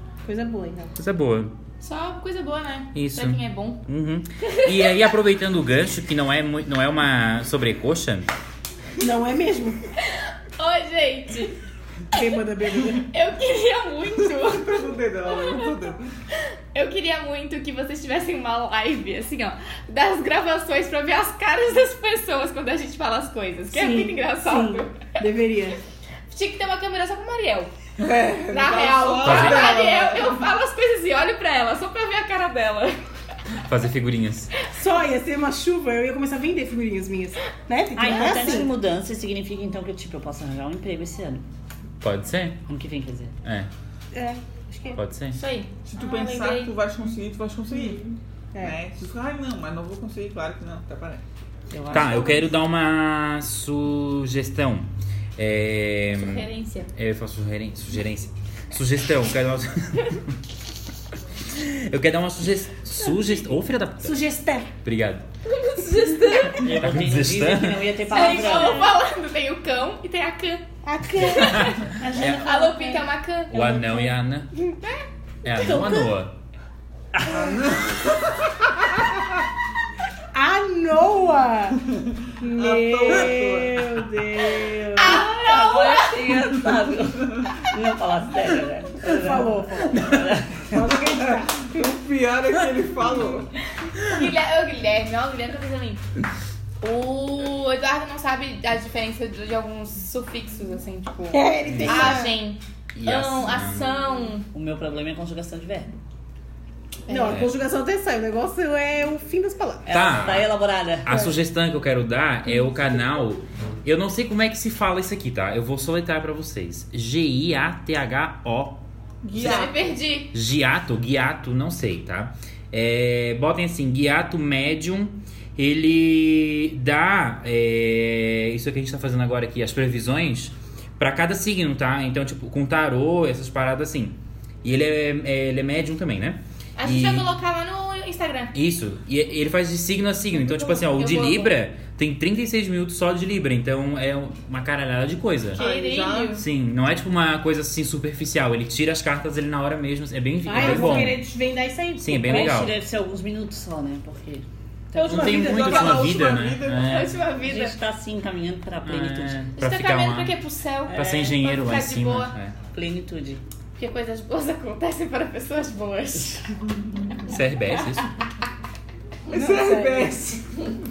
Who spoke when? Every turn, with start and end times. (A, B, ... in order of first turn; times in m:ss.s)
0:00.2-0:00.9 A
0:01.0-0:01.5 B
0:01.8-0:03.8 C
0:02.9-0:08.3 B
0:04.4-0:04.9 C
0:09.0-0:09.8 A
0:10.2-0:11.5 C
0:12.1-0:13.0 A
0:12.9-0:15.7 C
0:14.3-0:16.0 D
0:16.7-0:25.2 C
0:23.7-0:25.8 A
0:26.3-0:27.7 C
0:28.0-0:30.4 D
0:28.5-0:33.0 C
0:29.2-0:29.7 B
0:33.6-0:34.5 B
0:34.7-0:38.7 A
0:38.0-0:41.4 E
0:42.0-0:42.6 B
0:42.6-0:43.3 E
0:43.4-0:43.7 B
0:44.1-0:45.0 A
0:44.9-0:45.4 B
0:45.3-0:46.8 C
0:45.8-0:48.0 D
0:47.7-0:48.8 A
0:48.6-0:51.2 D
0:51.7-0:52.4 E
0:51.9-1:00.4 B
0:51.9-0:52.4 A
0:56.1-0:56.9 C
1:01.4-1:04.2 B
1:04.0-1:04.7 A
1:04.8-1:05.2 B
1:05.5-1:06.6 C
1:06.0-1:06.6 A
1:06.5-1:08.5 B
1:06.6-1:08.9 E
1:08.1-1:10.6 C
1:10.8-1:14.1 A
1:11.2-1:13.6 C
1:11.4-1:12.5 B
1:13.5-1:14.5 B
1:15.4-1:16.3 B
1:15.4-1:16.1 A
1:17.1-1:17.6 B
1:17.3-1:18.5 D
1:20.3-1:21.8 A
1:22.4-1:25.2 A
1:22.5-1:24.0 D
1:24.9-1:26.2 C
1:25.0-1:30.7 E
1:29.0-1:30.0 A
1:29.9-1:30.3 B
1:30.7-1:31.8 A
1:31.2-1:33.5 D
1:33.9-1:36.0 C
1:36.8-1:44.5 C
1:41.3-1:42.3 A
1:41.6-1:42.2 B
1:42.9-1:43.9 B
1:44.5-1:45.9 E
1:47.0-1:47.4 C
1:47.1-1:49.9 A
1:49.8-1:51.2 E
1:49.9-1:50.5 B
1:51.0-1:58.8 B
1:59.2-1:59.8 D
1:59.3-2:00.3 C
2:00.3-2:17.3 B
2:16.8-2:18.5 C
2:18.5-2:25.6 B
2:20.6-2:21.5 C
2:25.5-2:26.4 C
2:25.5-2:26.4 D
2:26.4-2:31.2 B
2:30.4-2:32.6 A
2:30.6-2:31.0 E
2:32.0-2:32.8 B
2:32.2-2:34.4 E
2:34.9-2:36.1 A
2:35.0-2:37.1 D
2:35.0-2:37.2 B
2:36.8-2:37.8 C
2:37.4-2:39.4 E
2:38.8-2:40.4 B
2:39.6-2:42.3 C
2:40.9-2:41.3 E
2:40.9-2:42.5 B
2:42.7-2:43.4 E
2:43.8-2:46.5 C
2:47.3-2:48.1 B
2:49.3-2:50.4 D
2:49.3-2:50.4 A